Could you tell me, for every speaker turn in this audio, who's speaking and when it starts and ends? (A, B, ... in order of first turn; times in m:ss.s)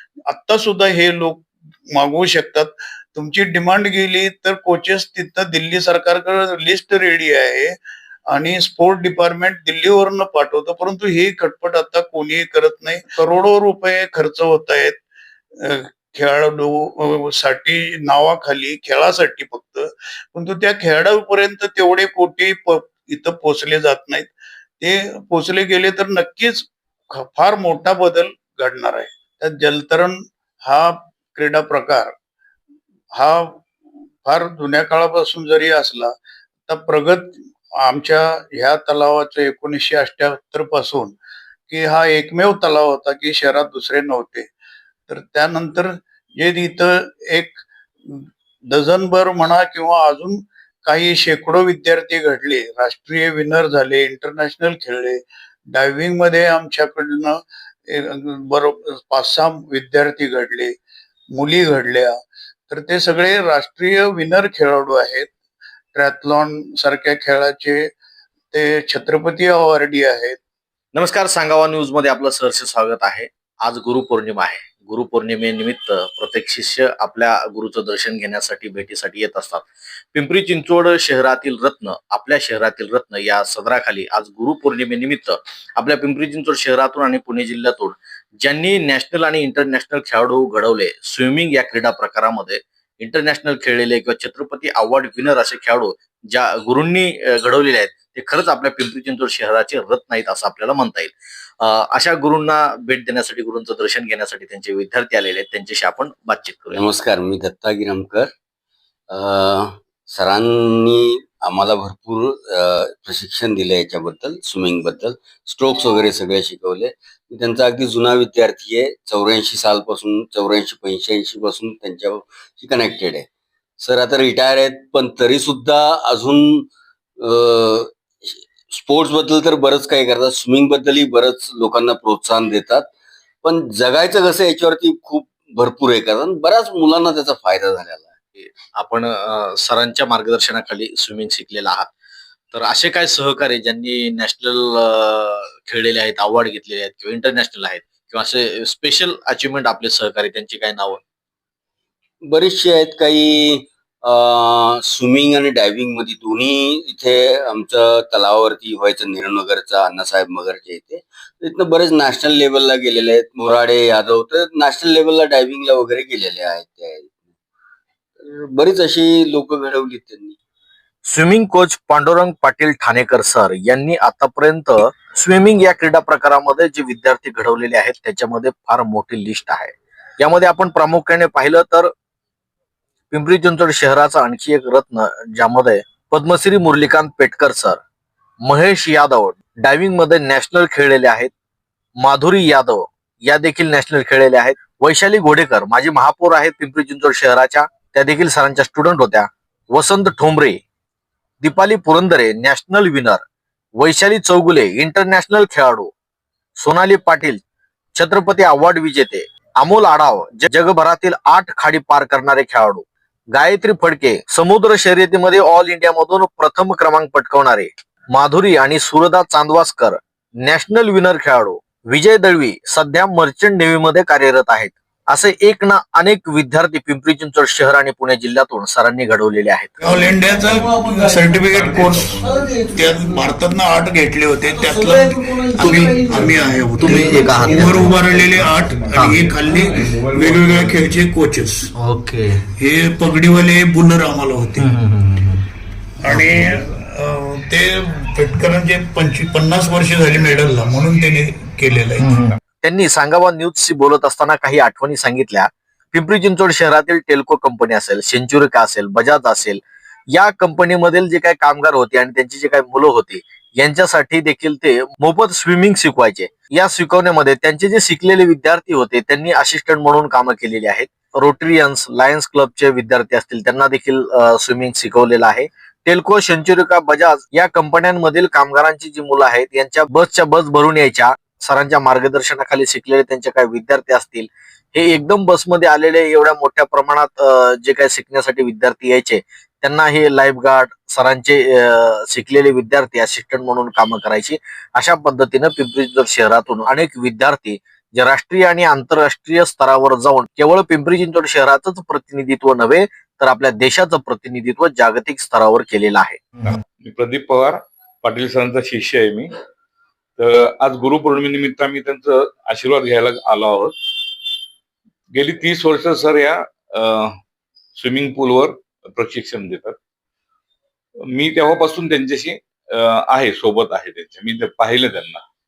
0:00.3-0:07.7 A
0:08.3-0:15.0 A
0:15.6-0:32.1 A
0:33.1-0:33.6 A
0:34.2-0:36.1 A
0:36.7-0:41.2 A
0:41.7-0:44.5 A
0:45.1-1:00.7 A
1:01.3-1:02.2 A
1:02.7-1:05.3 A
1:05.9-1:07.9 A
1:08.5-1:10.4 A
1:10.9-1:46.8 B
1:46.7-1:48.3 C
1:49.1-2:03.3 C
2:03.8-2:12.9 C
2:13.4-2:18.1 C
2:18.4-2:21.9 B
2:22.5-2:31.0 B
2:32.2-2:47.2 C
2:48.2-2:50.4 C
2:51.1-3:01.9 B
3:03.1-3:07.8 B
3:08.4-3:11.3 B
3:12.0-3:20.6 B
3:21.4-3:23.2 B
3:23.8-3:25.9 B
3:26.6-3:27.4 B
3:28.0-3:49.8 B
3:49.8-4:01.7 A
3:49.9-3:53.3 C
3:51.5-3:52.3 D
3:54.5-3:58.3 C
3:56.8-3:57.9 B
3:57.8-4:01.0 D
3:58.9-3:59.3 B
4:01.8-4:02.3 B
4:02.6-4:04.7 A
4:04.6-4:05.4 B
4:06.0-4:12.1 A
4:12.0-4:19.6 B
4:20.1-5:06.2 B
5:06.4-5:09.3 D
5:10.2-5:13.7 D
5:15.1-5:17.1 D
5:17.8-5:19.8 D
5:21.2-5:25.2 D